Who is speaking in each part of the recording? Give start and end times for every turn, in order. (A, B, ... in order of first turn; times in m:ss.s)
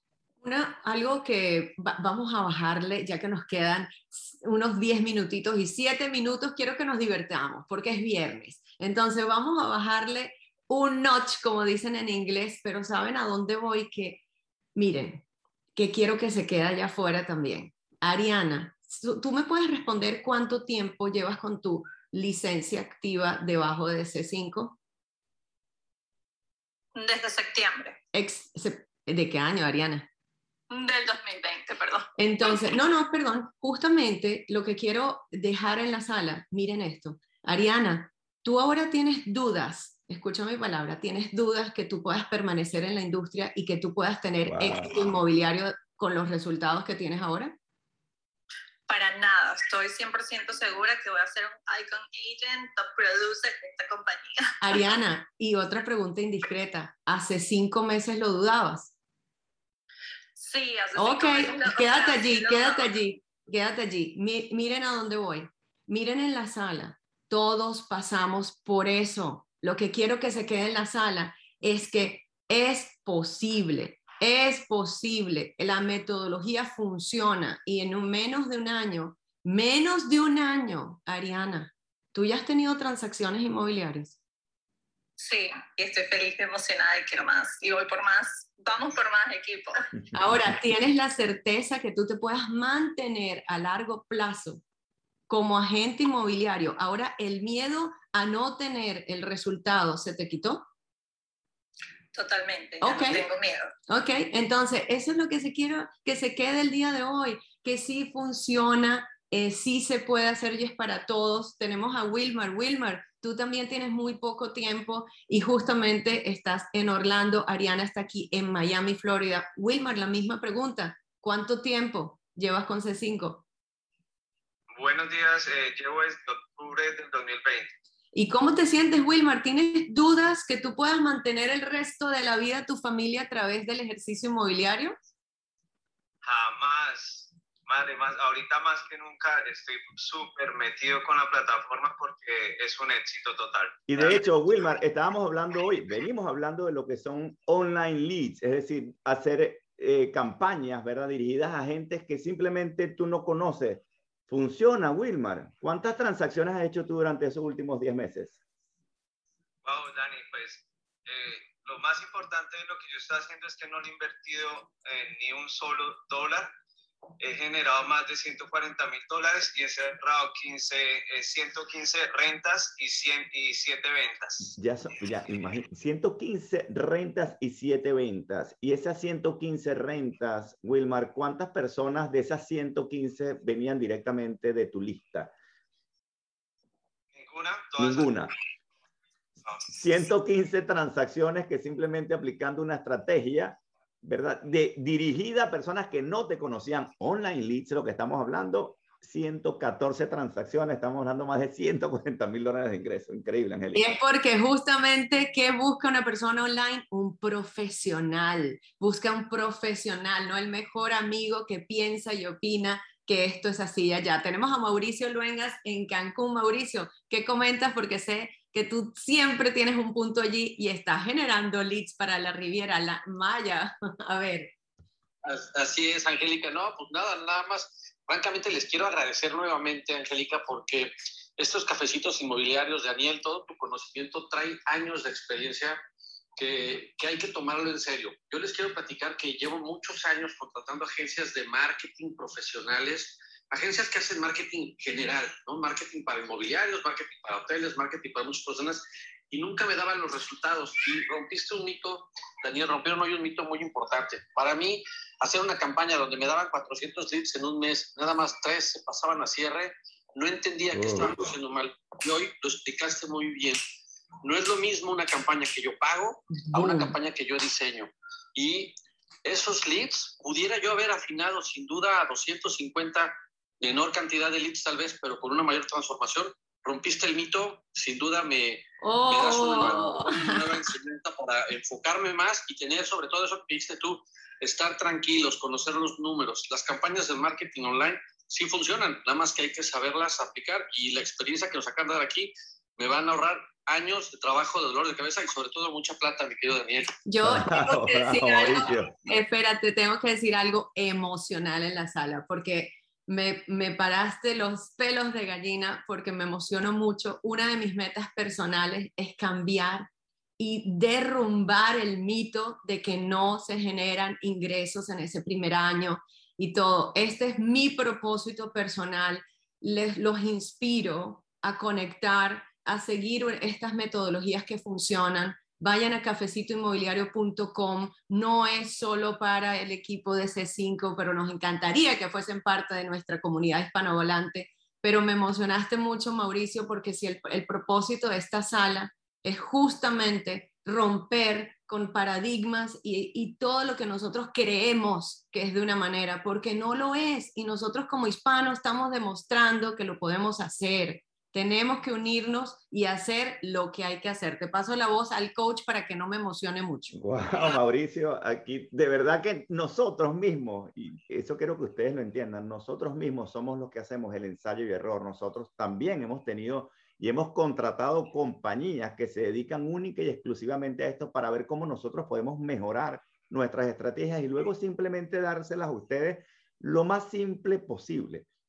0:00.4-0:14.2 A
0:14.8-0:15.2 A
0:15.8-0:24.8 A
0:26.9-0:28.0 B
0:28.1-0:30.1 A
0:30.7-0:32.5 B
0:32.2-0:47.5 A
0:44.4-0:45.1 C
0:48.9-0:54.8 B
0:54.6-0:58.9 A
1:00.4-1:02.9 B
1:01.0-1:24.2 A
1:25.2-1:29.9 B
1:30.1-1:34.6 A
1:35.3-1:40.6 A
1:42.1-1:43.7 B
1:42.8-1:43.2 A
1:43.9-2:03.4 A
2:04.7-2:07.7 D
2:08.1-2:15.0 A
2:16.2-2:24.2 D
2:23.9-2:38.4 C
2:39.6-2:46.5 D
2:47.2-2:54.5 D
2:54.5-3:05.3 C
3:07.1-3:08.2 D
3:07.8-3:08.3 C
3:09.7-3:24.0 C
3:23.7-3:44.5 A
3:45.2-3:55.8 E
3:56.4-4:23.6 E
4:20.7-4:21.1 C
4:24.2-4:56.9 E
4:26.4-4:26.9 A
4:38.8-4:40.6 A
4:57.0-5:09.9 A
4:57.2-4:59.0 C
5:10.4-5:57.0 A
5:56.9-6:18.2 C